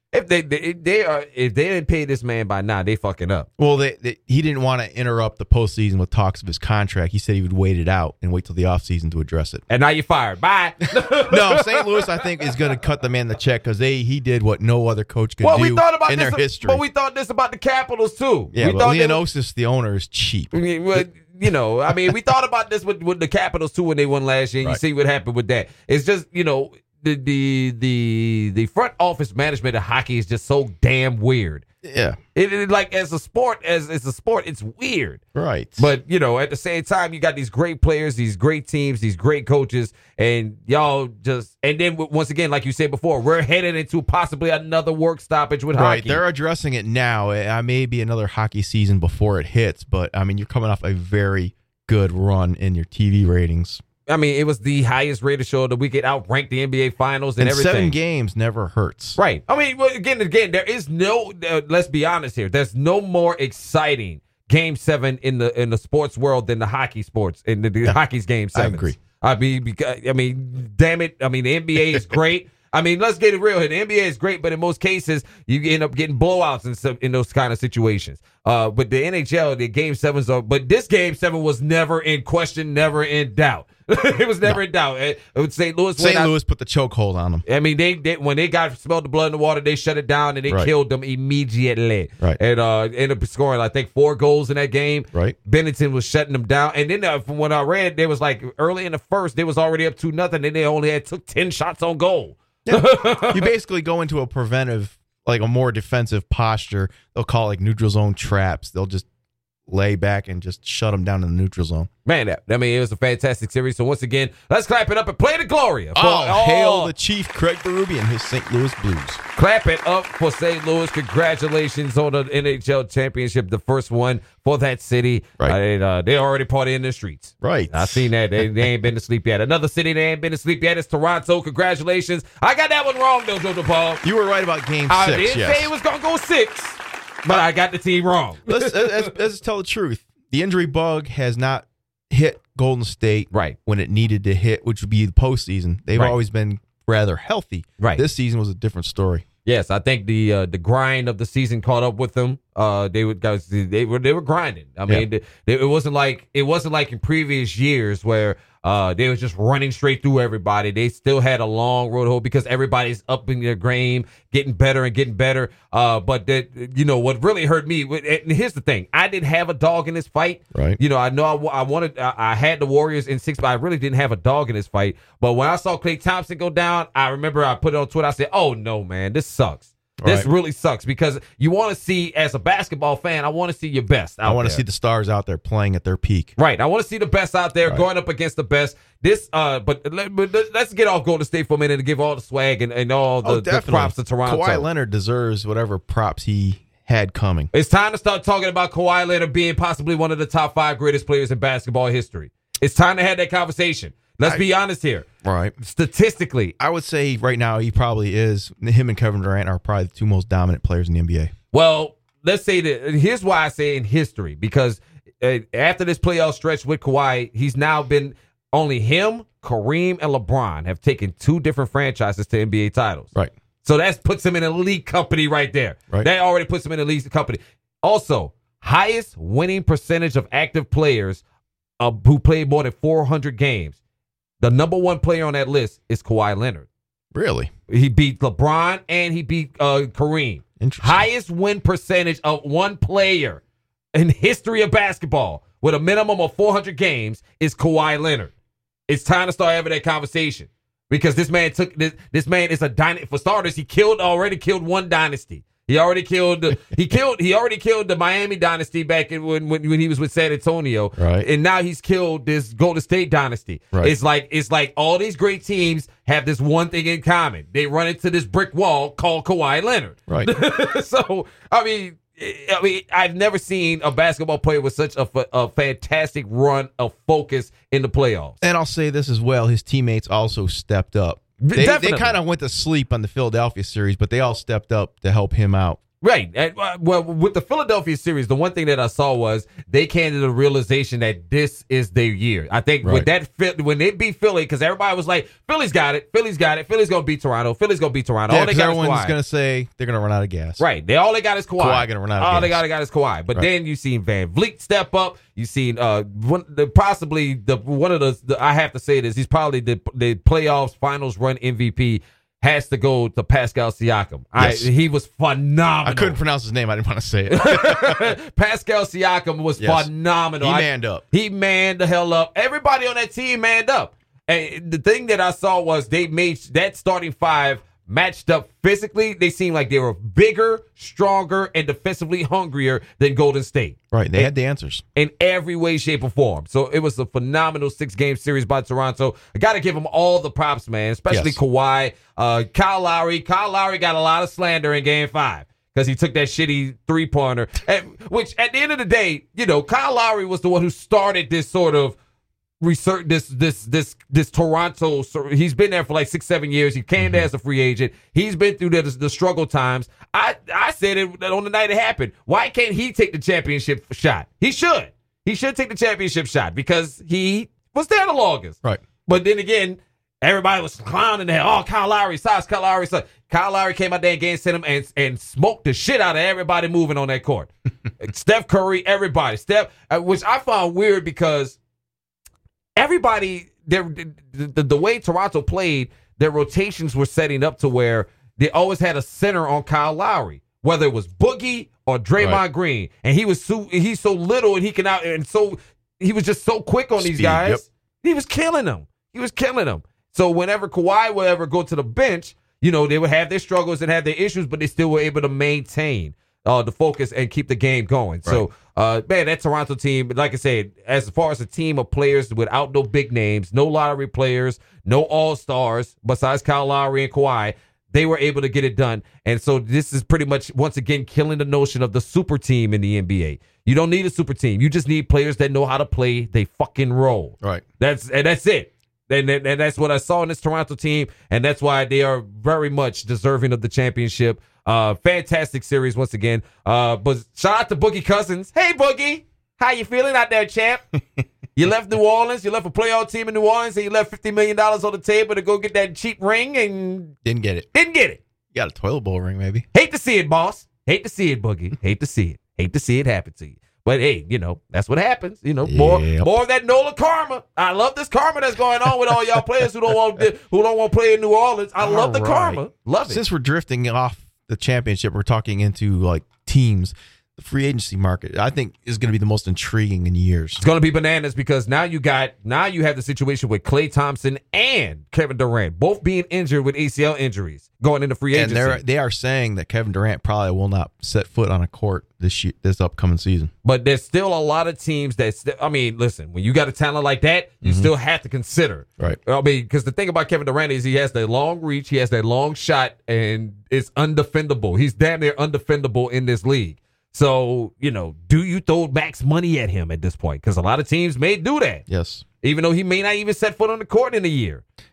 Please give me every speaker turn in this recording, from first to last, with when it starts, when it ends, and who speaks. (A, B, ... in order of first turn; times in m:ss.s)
0:00.1-0:03.5 A
0:03.6-0:09.6 B
0:09.7-0:12.3 A
0:11.2-0:16.8 B
0:15.4-0:19.2 A
0:18.5-0:21.0 B
0:20.5-0:31.6 A
0:31.8-0:32.2 B
0:32.4-0:35.2 A
0:35.4-0:35.9 B
0:35.8-0:46.2 A
0:45.8-0:53.8 B
0:54.1-0:58.0 A
0:57.4-0:59.2 B
0:59.2-1:26.3 A
1:08.5-1:09.0 B
1:26.0-1:27.4 B
1:27.5-1:43.5 A
1:42.7-1:49.1 B
1:49.7-1:51.9 B
1:52.0-1:56.9 A
1:56.0-1:59.2 B
1:59.4-2:14.0 A
2:07.4-2:08.7 B
2:14.0-2:15.7 B
2:14.9-2:19.1 A
2:18.5-2:29.2 B
2:23.3-2:23.6 A
2:29.4-3:04.6 A
2:50.5-2:50.8 B
3:00.0-3:00.3 B
3:04.2-3:06.3 B
3:06.4-3:14.7 A
3:13.2-3:17.5 B
3:17.5-3:25.1 A
3:25.2-3:25.6 B
3:25.6-3:26.6 A
3:26.6-3:31.3 B
3:31.5-3:43.1 A
3:43.6-3:51.2 A
3:51.8-3:53.8 A
3:54.4-3:56.7 A
3:57.1-3:57.5 B
3:57.7-4:03.4 A
4:00.6-4:01.0 B
4:04.0-4:08.3 A
4:08.9-4:38.4 A
4:21.0-4:21.3 B
4:38.4-4:45.8 B
4:41.4-4:42.2 A
4:46.0-4:59.2 A
4:52.8-4:53.1 B
4:58.3-5:00.6 B
5:00.6-5:16.2 A
5:01.6-5:02.6 B
5:14.4-5:14.7 B
5:15.8-5:18.2 B
5:17.4-5:34.3 A
5:19.6-5:19.9 B
5:20.4-5:21.0 B
5:33.9-5:34.8 B
5:35.0-5:52.0 A
5:41.1-5:41.4 B
5:52.6-6:21.6 A
5:57.0-5:57.3 B
6:22.8-7:20.8 A
6:32.2-6:32.4 B
6:37.0-6:37.6 B
7:21.6-7:27.1 A
7:27.2-7:27.7 B
7:27.7-7:28.2 A
7:28.5-7:29.6 B
7:29.7-7:43.2 A
7:35.6-7:36.3 B
7:41.8-7:50.6 B
7:50.6-7:58.8 A
7:58.3-8:03.5 B
8:03.6-8:21.8 A
8:07.6-8:07.9 B
8:21.9-8:22.2 B
8:22.4-8:24.6 A